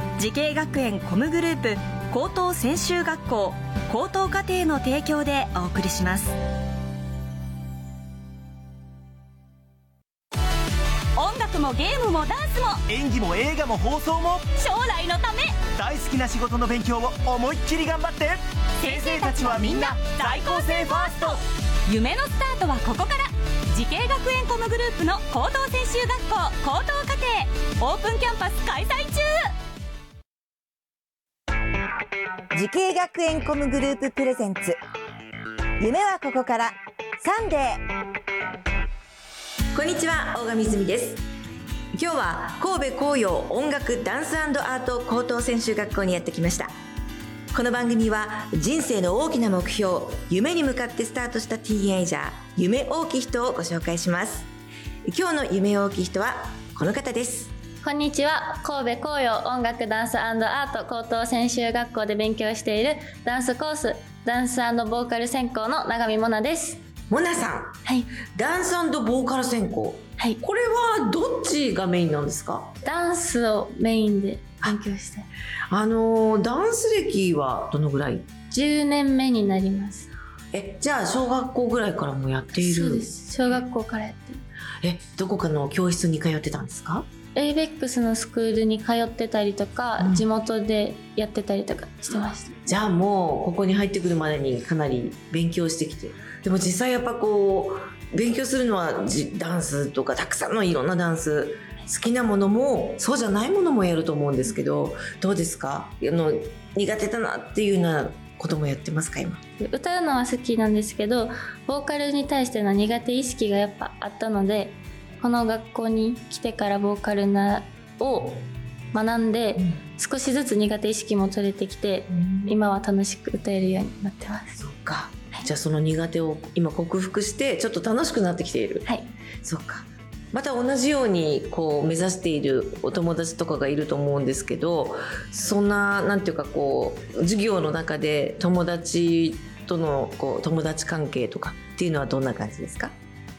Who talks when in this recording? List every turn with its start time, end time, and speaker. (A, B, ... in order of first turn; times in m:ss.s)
0:00.2-0:06.3 A
0:11.2-0:12.8 B
0:12.9-0:14.5 C
0:14.6-0:15.6 B
0:15.7-0:21.4 C
0:18.8-0:29.3 B
0:32.5-0:34.7 D
0:35.8-0:37.8 D
0:39.7-0:41.2 E
0:41.9-0:46.7 E
0:47.5-0:54.5 E
0:55.0-0:57.5 E
0:57.8-1:06.8 F
1:07.1-1:12.8 E
1:07.8-1:08.1 F
1:12.8-1:15.3 F
1:15.7-1:18.3 E
1:18.5-1:20.1 F
1:20.5-1:23.1 E
1:22.6-1:24.4 F
1:24.8-1:27.1 E
1:27.3-1:32.6 F
1:30.0-1:30.2 E
1:32.6-1:49.4 E
1:49.6-2:04.5 F
2:02.1-2:02.5 E
2:04.5-2:08.9 E
2:09.4-2:22.9 E